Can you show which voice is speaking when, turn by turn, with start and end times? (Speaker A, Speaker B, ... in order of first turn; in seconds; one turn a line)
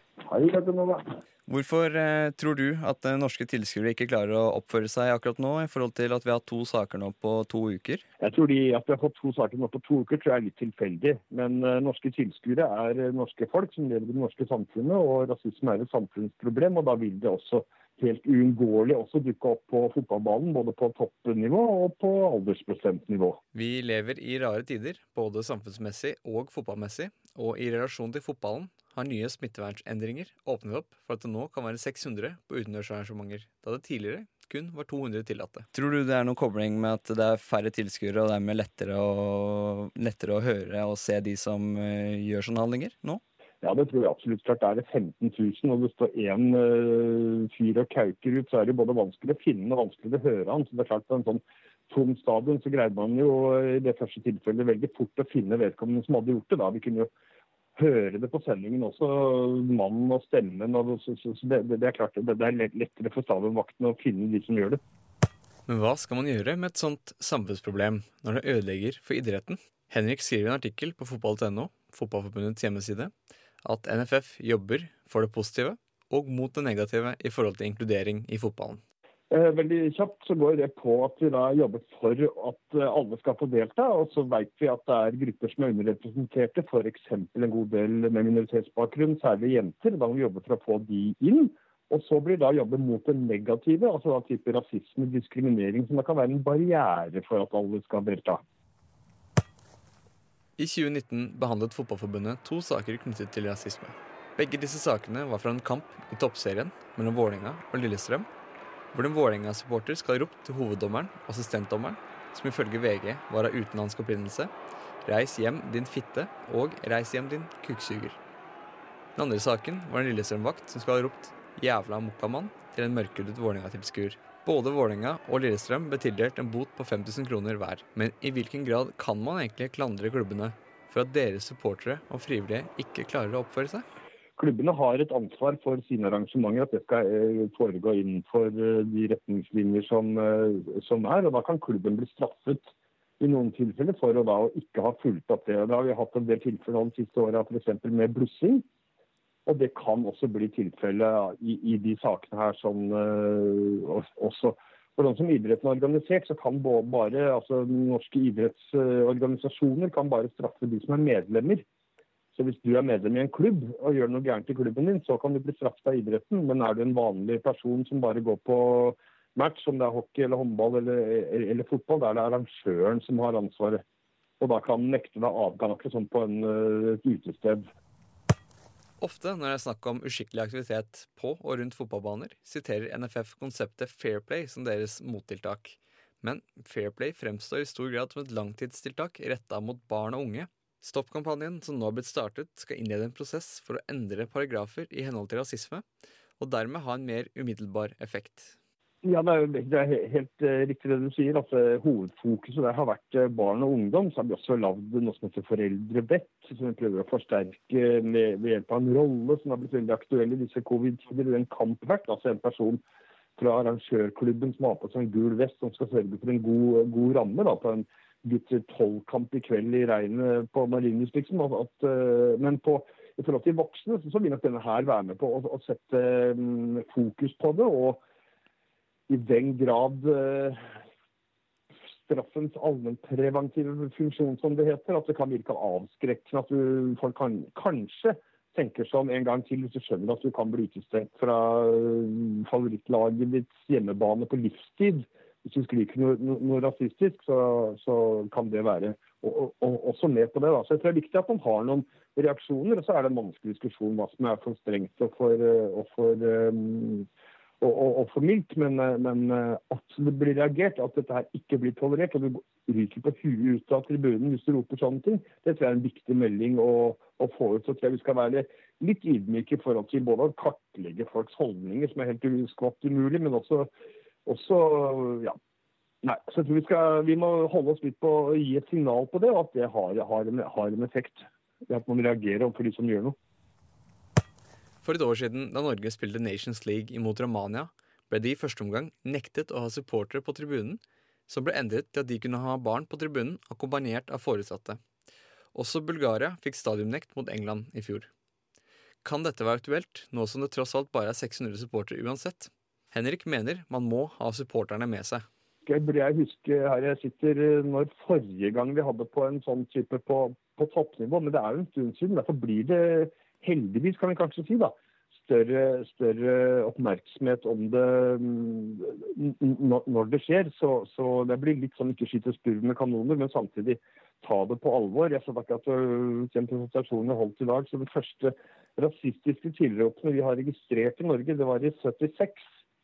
Speaker A: 0.3-1.1
Speaker B: 1.5-8.1
Speaker A: 8.2-23.4
Speaker B: 23.5-43.2
Speaker A: 43.6-57.1
Speaker A: 57.8-64.8
Speaker B: 65.7-73.1
Speaker B: 73.6-78.8
Speaker A: 79.3-98.4
Speaker B: 100.6-108.3
Speaker B: 108.9-114.5
Speaker B: 115.1-118.2
Speaker B: 119.2-133.8
Speaker A: 134.4-148.7
Speaker A: 149.5-161.7
Speaker A: 162.3-173.8
Speaker A: 174.4-177.7
Speaker B: 179.0-195.8
Speaker B: 196.4-198.6
Speaker A: 199.0-212.8
Speaker A: 213.4-228.0
Speaker A: 229.1-230.8
Speaker A: 232.1-257.1
Speaker A: 257.6-273.7
Speaker A: 274.3-275.4
Speaker A: 276.0-283.2
Speaker B: 284.8-294.8
Speaker B: 295.5-298.1
Speaker B: 299.0-305.3
Speaker A: 305.6-332.5